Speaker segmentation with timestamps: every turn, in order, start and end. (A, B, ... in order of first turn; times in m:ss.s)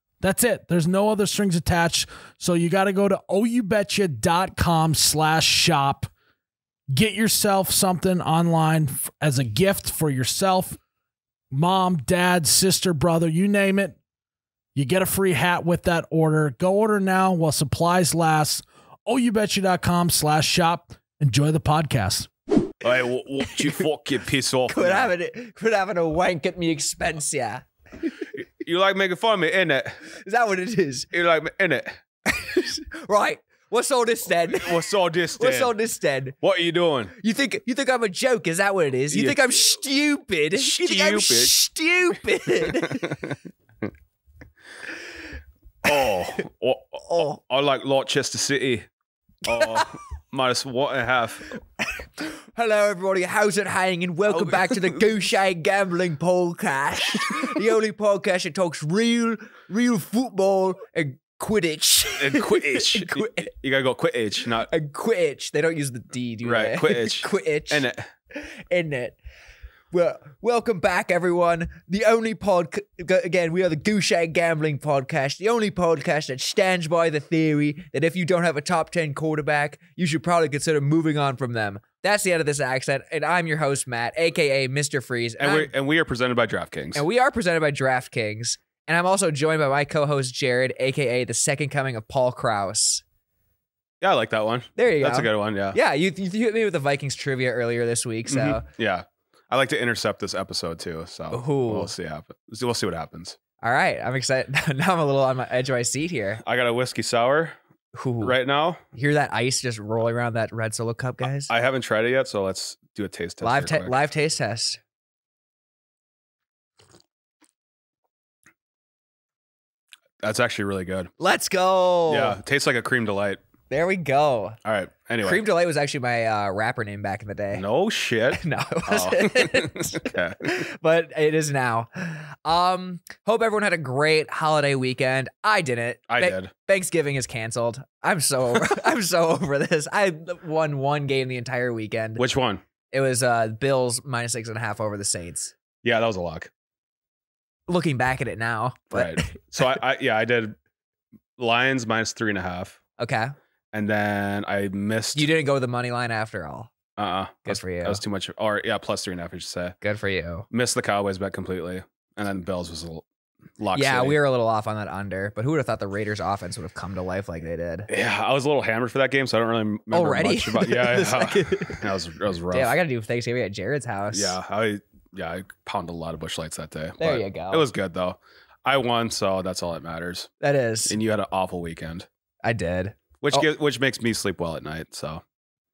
0:00.2-0:06.1 A
0:06.9-0:10.8 A
0:11.5-0:14.0 A
0:14.7-0:22.3 A
0:22.8-0:25.1 B
0:23.5-0:23.7 C
0:24.7-0:27.6 C
0:28.3-0:30.0 B
0:30.1-0:31.1 C
0:31.1-0:32.0 B
0:32.3-0:36.4 C
0:34.5-0:35.7 B
0:36.4-0:37.1 B
0:37.2-0:43.3 C
0:39.1-0:39.6 B
0:40.5-0:41.5 B
0:42.6-0:43.4 B
0:45.8-0:48.9 B
0:45.9-0:46.4 C
0:47.1-0:47.4 C
0:49.4-0:51.5 B
0:49.4-0:49.9 C
0:52.2-1:03.5 C
0:54.3-0:55.0 B
0:57.2-0:57.6 B
1:02.2-1:04.7 B
1:04.7-1:09.2 C
1:06.4-1:08.1 B
1:09.9-1:25.7 C
1:25.4-1:27.0 B
1:26.9-1:33.0 C
1:34.0-1:35.8 B
1:34.8-1:38.6 C
1:38.3-1:43.4 B
1:41.3-1:41.9 C
1:43.6-1:46.4 C
1:46.4-1:47.6 B
1:47.9-1:48.3 C
1:48.2-1:48.8 B
1:48.9-1:51.5 C
1:51.5-1:54.0 B
1:53.4-1:54.8 C
2:00.2-2:01.1 B
2:01.2-2:02.4 C
2:02.1-2:03.4 B
2:03.7-2:04.6 C
2:04.6-2:05.4 B
2:05.2-2:07.6 C
2:07.5-2:10.6 B
2:08.3-2:22.2 C
2:16.1-2:16.5 B
2:22.2-2:22.6 B
2:22.9-2:25.5 C
2:25.8-2:26.5 B
2:27.7-2:29.8 C
2:28.9-2:30.6 B
2:31.4-2:32.8 B
2:33.0-2:33.3 C
2:33.7-2:35.3 B
2:35.1-2:36.7 C
2:37.0-2:39.8 B
2:37.4-2:38.0 C
2:39.8-2:40.4 C
2:40.5-2:43.0 B
2:43.6-2:44.2 B
2:43.7-2:47.9 C
2:47.9-2:52.8 B
2:49.9-2:51.8 C
2:52.5-2:54.4 C
2:54.1-3:00.3 B
2:57.0-2:57.7 C
3:00.4-3:01.0 C
3:00.9-3:02.1 B
3:02.4-3:03.5 C
3:03.2-3:05.2 B